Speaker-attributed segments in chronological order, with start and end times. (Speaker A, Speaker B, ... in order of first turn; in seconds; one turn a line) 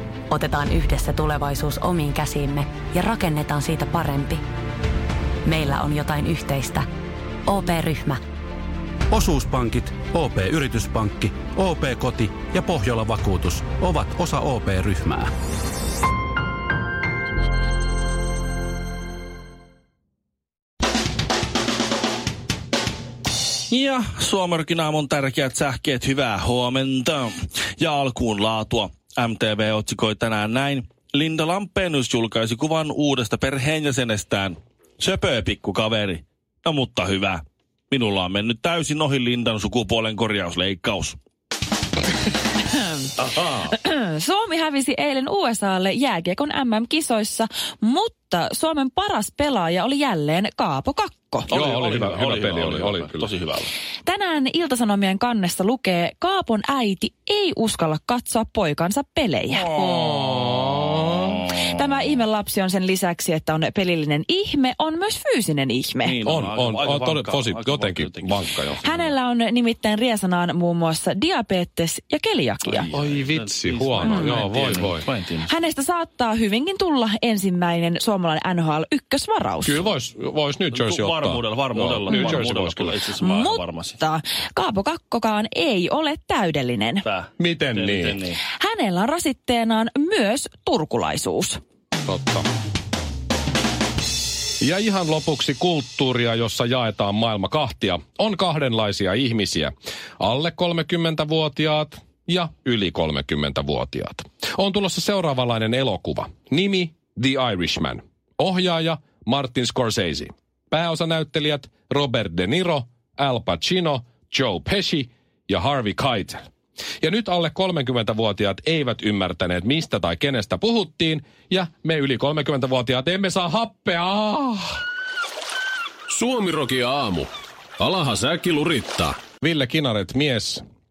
Speaker A: 0.3-4.4
Speaker A: 5.4-6.8
Speaker A: 7.5-8.2
Speaker B: 9.1-15.3
Speaker C: 23.7-41.2
Speaker D: 42.7-43.1
Speaker E: 43.2-43.7
Speaker D: 43.7-51.5
Speaker C: 51.5-53.7
Speaker E: 51.5-53.3
Speaker D: 54.0-59.7
Speaker C: 59.5-60.8
Speaker E: 59.7-61.4
Speaker D: 61.4-66.2
Speaker C: 66.0-68.4
Speaker E: 66.2-69.2
Speaker D: 68.8-72.9
Speaker C: 72.6-75.5
Speaker E: 72.9-75.1
Speaker D: 74.0-74.5
Speaker D: 75.5-79.8
Speaker E: 79.6-83.0
Speaker C: 80.7-84.0
Speaker D: 82.1-82.4
Speaker D: 83.2-87.0
Speaker C: 87.0-88.4
Speaker E: 87.4-88.2
Speaker D: 88.6-91.6
Speaker E: 92.0-92.4
Speaker E: 94.6-116.5
Speaker E: 117.0-124.8
Speaker F: 126.1-129.2
Speaker E: 129.4-130.6